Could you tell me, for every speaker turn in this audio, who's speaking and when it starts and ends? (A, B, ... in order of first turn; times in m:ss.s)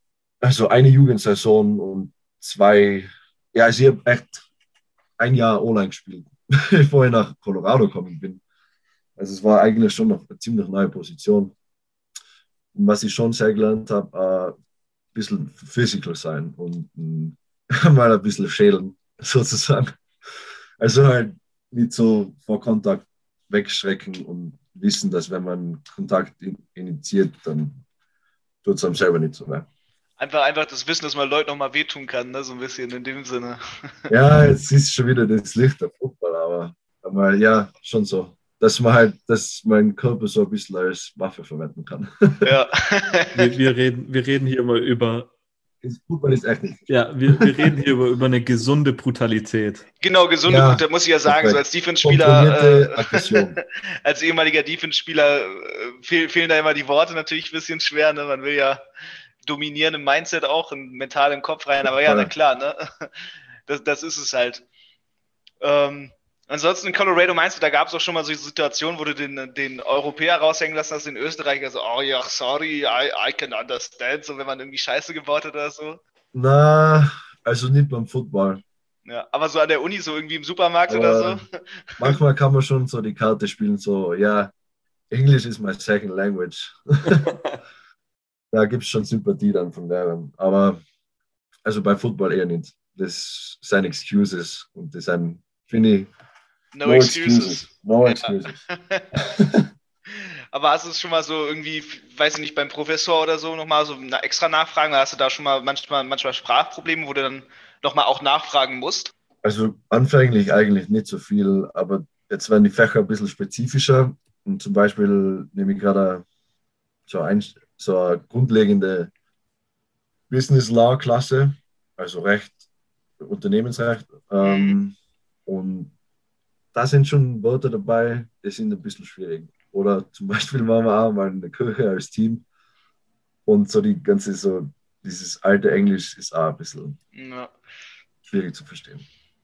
0:00.4-0:04.4 A
0:05.2-0:08.4 A
0:09.2-0:11.5 A
0:12.7-0:14.5 A
0:15.1-0:19.9 A
0:20.8-0:27.8 A
0:28.6-0:29.6 A
0:30.2-0:34.0 B
0:34.1-0:42.5 A
0:42.4-0:43.5 B
0:43.3-0:45.3 C
0:45.8-0:47.7 A
0:46.9-0:49.8 C
0:50.0-0:58.8 B
0:50.5-0:53.6 A
0:59.4-1:03.1 B
1:02.0-1:02.3 A
1:03.7-1:04.6 B
1:05.6-1:16.0 B
1:16.3-1:18.6 A
1:19.0-1:22.2 B
1:20.9-1:21.4 A
1:22.0-1:24.5 A
1:25.1-1:27.3 A
1:28.5-1:30.8 A
1:31.6-1:36.1 A
1:36.7-1:39.0 B
1:36.8-1:38.6 A
1:39.2-1:39.7 A
1:40.1-1:49.1 B
1:49.4-1:56.2 A
1:57.1-1:59.1 A
2:00.3-2:02.6 A
2:03.2-2:04.9 A
2:04.4-2:04.7 B
2:05.4-2:05.9 A
2:06.7-2:12.4 A
2:13.4-2:17.0 A
2:17.1-2:17.5 B
2:18.2-2:19.0 A